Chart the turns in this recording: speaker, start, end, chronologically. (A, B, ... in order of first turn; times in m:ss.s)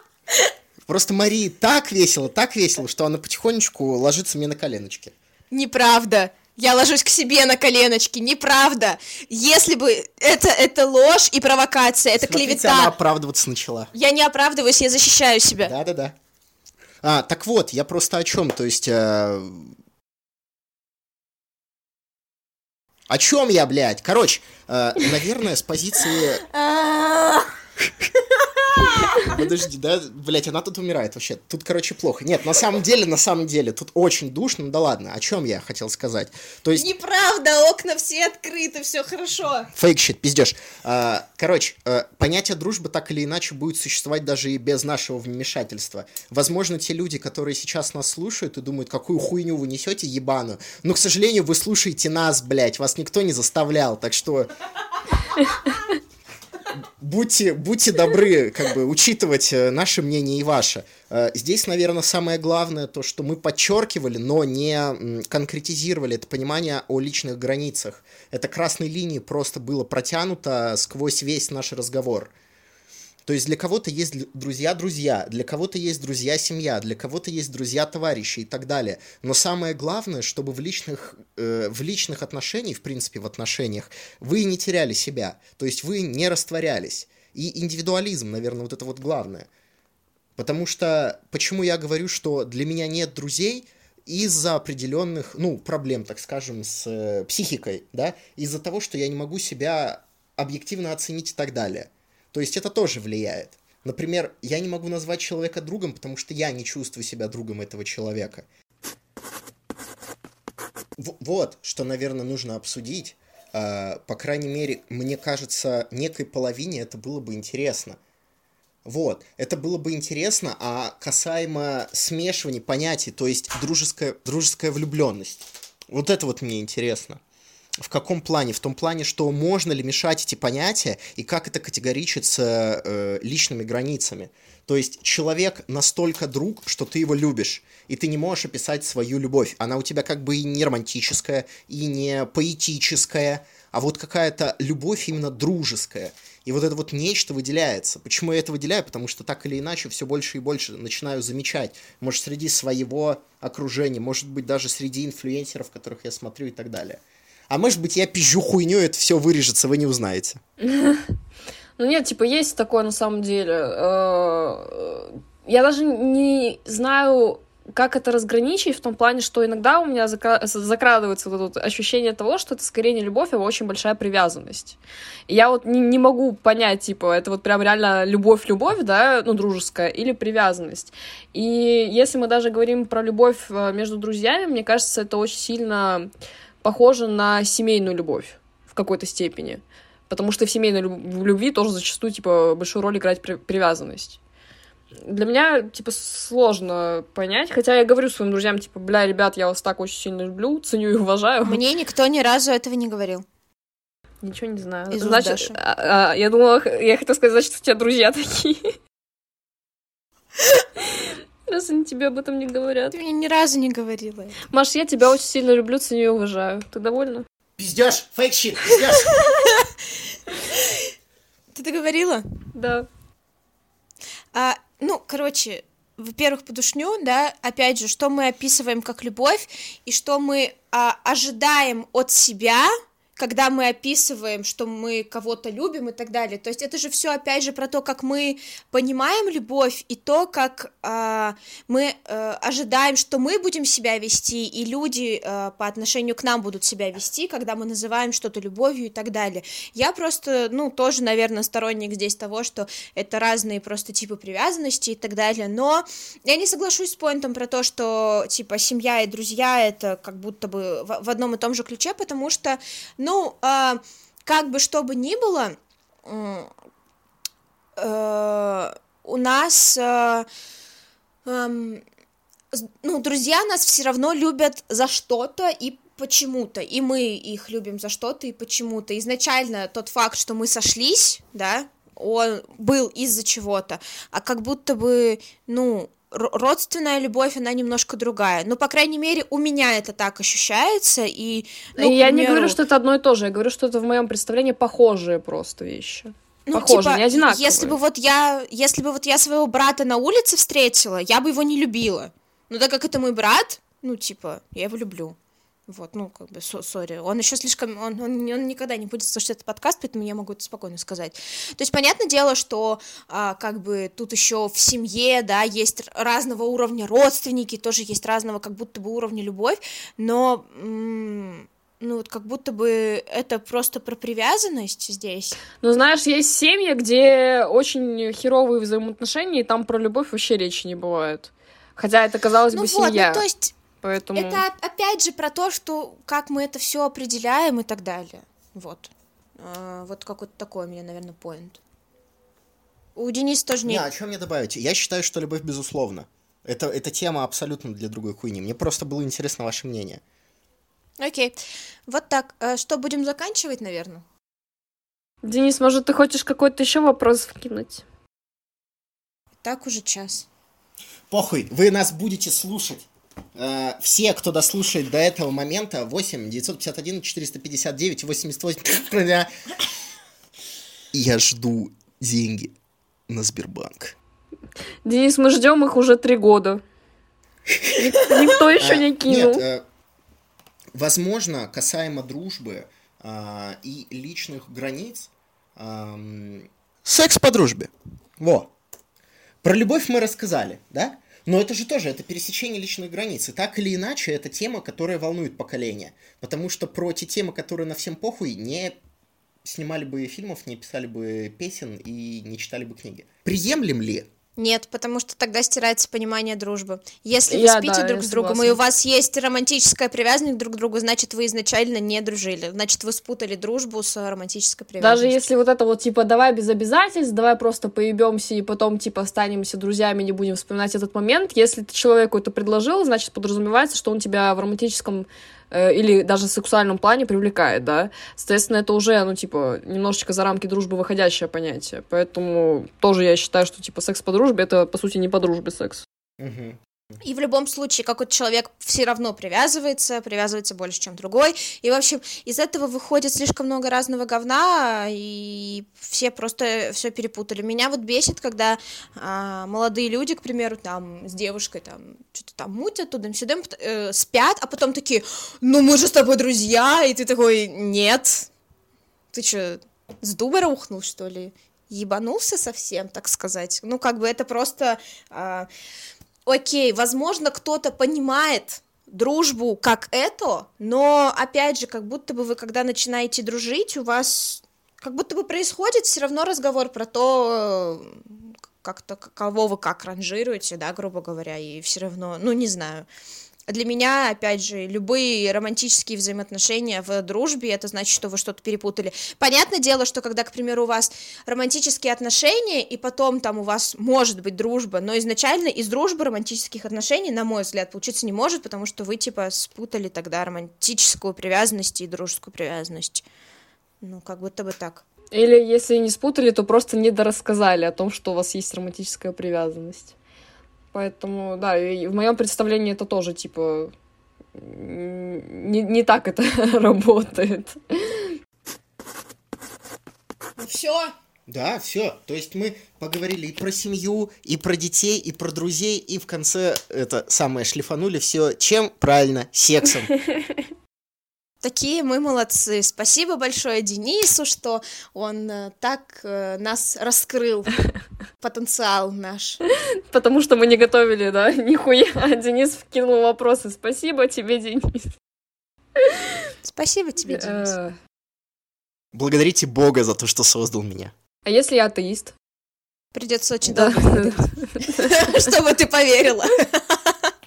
0:00.9-0:05.2 A
0:05.5-0:12.9 B
0:12.2-0:13.9 A
0:13.9-0:15.7 B
0:15.6-0:16.2 A
0:17.0-0:19.8 A
0:23.1-0:26.4 A
0:26.5-0:27.5 B
0:28.5-0:29.3 B
0:29.1-0:36.9 A
0:36.7-0:39.7 B
0:39.7-0:54.5 A
0:57.0-1:12.3 A
1:13.3-1:29.5 A
1:30.4-1:48.5 A
1:51.0-1:58.0 A
1:58.8-2:07.2 A
2:07.8-2:40.4 A
2:40.6-2:41.1 C
2:41.8-3:06.1 C
3:06.6-3:14.2 C
3:15.0-3:21.6 C
3:21.4-3:23.2 B
3:24.2-3:28.8 C
3:24.9-3:25.6 B
3:30.9-3:33.0 C
3:32.9-3:34.4 B
3:34.5-3:37.2 C
3:37.6-3:39.2 A
3:39.0-3:39.7 B
3:40.4-3:40.9 B
3:41.6-3:42.2 B
3:42.5-3:42.9 C
3:44.3-4:26.5 B
4:27.8-4:30.3 B
4:31.3-4:31.8 B
4:32.5-4:52.6 B
4:51.8-4:57.8 C
4:56.5-5:05.2 B
5:05.7-5:25.4 B
5:25.6-5:33.2 C
5:32.5-5:33.5 B
5:33.8-5:34.4 C
5:34.1-5:41.6 B
5:43.0-5:43.8 B
5:43.6-5:50.0 A
5:51.0-5:51.4 B
5:51.9-5:54.0 B
5:55.2-5:57.8 C
5:59.4-6:00.3 B
6:01.1-6:09.3 A
6:10.9-6:12.5 A
6:13.1-6:14.0 A
6:14.8-6:16.6 C
6:17.5-6:19.6 A
6:17.7-6:19.4 C
6:20.7-6:28.5 A
6:29.4-6:38.8 A
6:39.4-6:44.1 A
6:44.4-6:55.3 B
6:47.3-6:48.6 C
6:54.8-7:15.8 C
7:16.2-7:16.6 A
7:17.0-7:38.3 B
7:39.1-7:45.5 B
7:46.3-8:02.9 B
8:03.5-8:23.0 B
8:23.8-8:24.8 B
8:25.1-8:29.9 C
8:30.7-8:33.7 C
8:34.4-8:38.2 C
8:40.4-8:40.9 B
8:41.3-8:49.9 A
8:50.1-8:50.4 C
8:51.4-8:57.6 B
8:58.2-8:59.4 B
8:59.9-9:04.9 C
9:05.8-9:06.2 C
9:06.4-9:07.5 B
9:07.1-9:07.8 C
9:08.9-9:10.9 A
9:11.3-9:12.1 C
9:12.9-9:17.0 B
9:13.5-9:15.2 C